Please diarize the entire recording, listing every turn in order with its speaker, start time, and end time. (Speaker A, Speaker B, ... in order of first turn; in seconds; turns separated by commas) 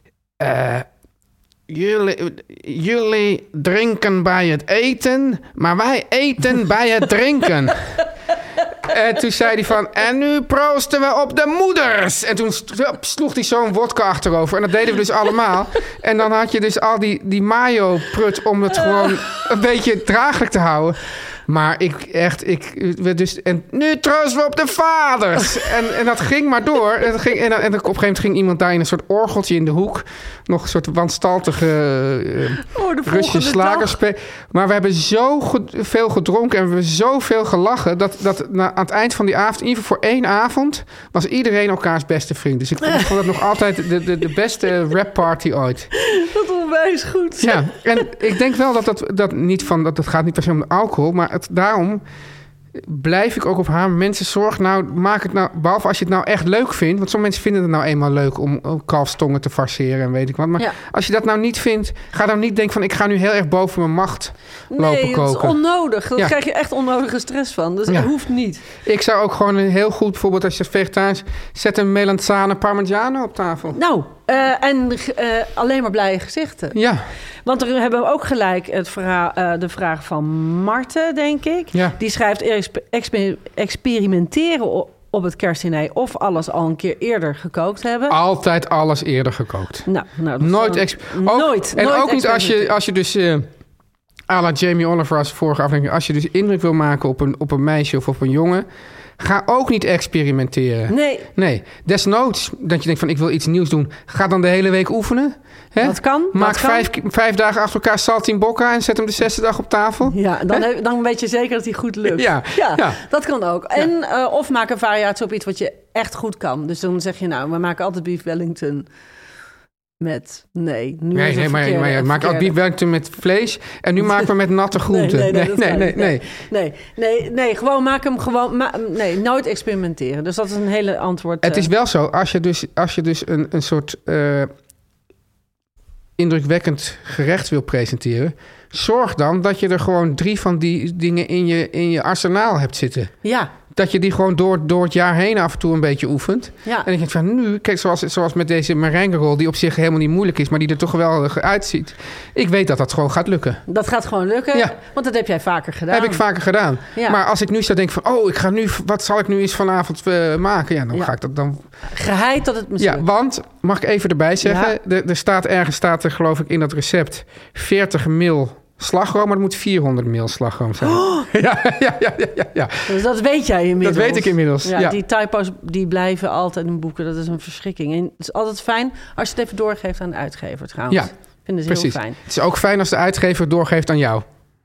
Speaker A: 0.4-0.8, Speaker A: 1.7-7.9, Speaker A: 8.8-45.9, Speaker B: 32.7-34.0, Speaker B: 46.0-48.1, Speaker A: 47.4-52.0, Speaker A: 52.7-65.6, Speaker B: 64.7-68.6, Speaker A: 68.8-73.8, Speaker B: 73.7-76.8, Speaker A: 76.7-77.1, Speaker B: 77.4-88.2, Speaker A: 88.1-89.9, Speaker B: 89.8-92.7, Speaker A: 90.4-93.5, Speaker A: 94.3-98.7, Speaker A: 99.2-110.6, Speaker B: 100.9-101.3, Speaker B: 105.8-106.9, Speaker B: 110.0-118.9, Speaker A: 112.1-113.0, Speaker B: 120.0-122.5, Speaker A: 121.1-126.3, Speaker B: 124.8-131.7, Speaker A: 131.4-134.5, Speaker A: 136.2-143.1, Speaker B: 143.2-143.5, Speaker A: 143.7-153.6, Speaker B: 153.7-156.2, Speaker A: 155.9-161.6, Speaker B: 161.8-163.0, Speaker A: 162.8-173.0, Speaker B: 164.4-164.7, Speaker B: 170.9-171.2, Speaker B: 172.9-182.2, Speaker A: 173.8-175.0, Speaker A: 181.7-184.2